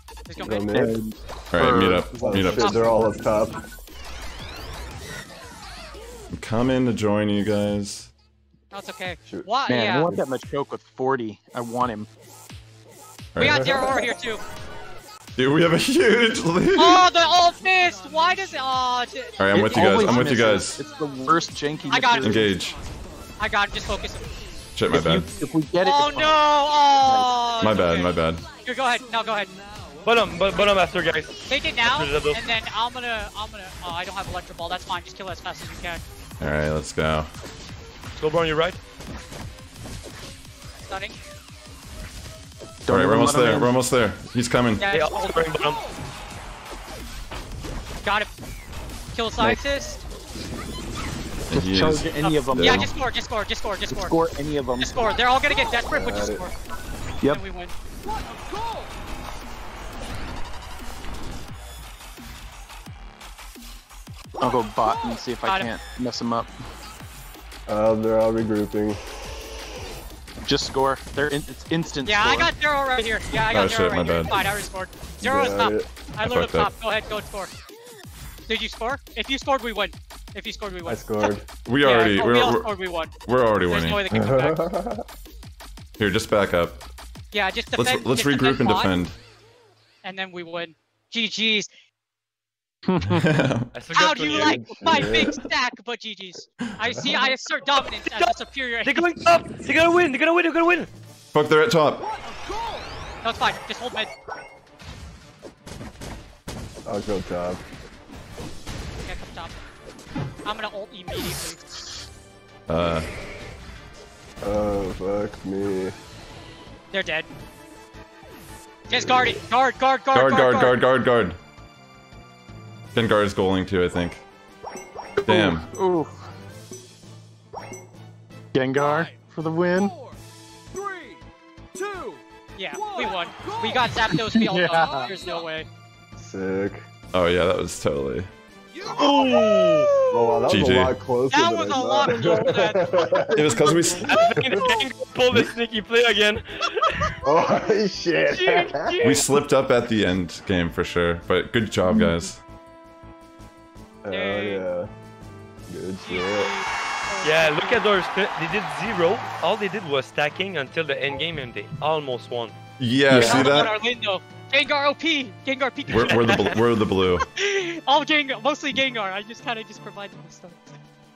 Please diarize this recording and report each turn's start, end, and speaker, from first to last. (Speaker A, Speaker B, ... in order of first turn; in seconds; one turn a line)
Speaker A: 0.3-0.7
Speaker B: 0.4-1.0
Speaker C: 0.7-3.0
Speaker D: 1.5-2.7
Speaker B: 2.1-3.6
Speaker D: 6.3-8.1
Speaker A: 8.7-10.1
Speaker B: 9.2-9.5
Speaker C: 9.7-12.1
Speaker D: 13.3-13.8
Speaker A: 13.4-14.4
Speaker D: 15.3-17.1
Speaker A: 16.7-19.5
Speaker D: 19.4-20.8
Speaker C: 19.5-22.4
Speaker A: 20.0-20.2
Speaker A: 21.9-22.6
Speaker D: 22.2-22.8
Speaker A: 23.4-24.4
Speaker D: 24.7-25.3
Speaker C: 24.9-26.4
Speaker A: 25.8-29.5
Speaker D: 27.6-28.4
Speaker E: 30.0-32.4
Speaker A: 31.5-36.0
Speaker D: 36.4-37.3
Speaker E: 38.2-38.8
Speaker A: 40.9-41.1
Speaker C: 42.8-43.7
Speaker D: 42.9-44.9
Speaker A: 44.8-45.4
Speaker E: 44.9-45.8
Speaker A: 49.1-50.0
Speaker D: 51.5-52.9
Speaker C: 51.5-52.9
Speaker A: 52.2-54.1
Speaker C: 53.9-55.0
Speaker A: 54.8-56.5
Speaker B: 55.9-56.5
Speaker A: 57.3-57.7
Speaker C: 64.4-66.6
Speaker A: 65.4-65.7
Speaker B: 67.7-69.0
Speaker C: 70.4-72.5
Speaker A: 72.0-77.5
Speaker D: 73.5-74.3
Speaker B: 75.2-75.9
Speaker D: 76.2-76.7
Speaker A: 78.5-84.6
Speaker B: 80.8-81.4
Speaker D: 81.6-82.7
Speaker D: 83.2-84.0
Speaker B: 84.1-85.0
Speaker D: 86.0-86.9
Speaker A: 87.3-89.0
Speaker D: 87.7-89.2
Speaker A: 90.0-91.7
Speaker C: 92.8-93.2
Speaker D: 93.0-93.7
Speaker E: 93.7-95.2
Speaker A: 93.9-99.1
Speaker B: 94.2-95.4
Speaker E: 98.0-100.9
Speaker D: 101.3-102.0
Speaker A: 103.2-104.1
Speaker B: 106.8-107.6
Speaker A: 109.0-109.5
Speaker A: 110.4-111.8
Speaker D: 112.7-113.1
Speaker B: 114.4-115.9
Speaker A: 116.9-117.3
Speaker A: 118.9-120.8
Speaker B: 118.9-119.4
Speaker D: 120.1-121.4
Speaker D: 122.9-124.2
Speaker C: 125.2-126.3
Speaker D: 125.2-125.7
Speaker C: 128.5-129.9
Speaker A: 132.6-135.7
Speaker C: 133.8-135.1
Speaker B: 136.2-136.8
Speaker D: 137.1-138.3
Speaker E: 138.9-139.9
Speaker B: 139.0-144.6
Speaker A: 139.5-140.1
Speaker D: 140.5-140.9
Speaker A: 141.3-143.8
Speaker D: 143.3-144.2
Speaker E: 144.1-147.2
Speaker B: 147.2-149.2
Speaker A: 148.3-149.3
Speaker D: 149.0-152.4
Speaker B: 154.0-154.9
Speaker A: 154.1-154.6
Speaker B: 155.7-156.5
Speaker A: 156.0-157.9
Speaker E: 157.2-162.6
Speaker D: 162.8-163.8
Speaker C: 163.1-163.5
Speaker A: 163.1-166.7
Speaker D: 165.9-167.2
Speaker A: 167.2-170.8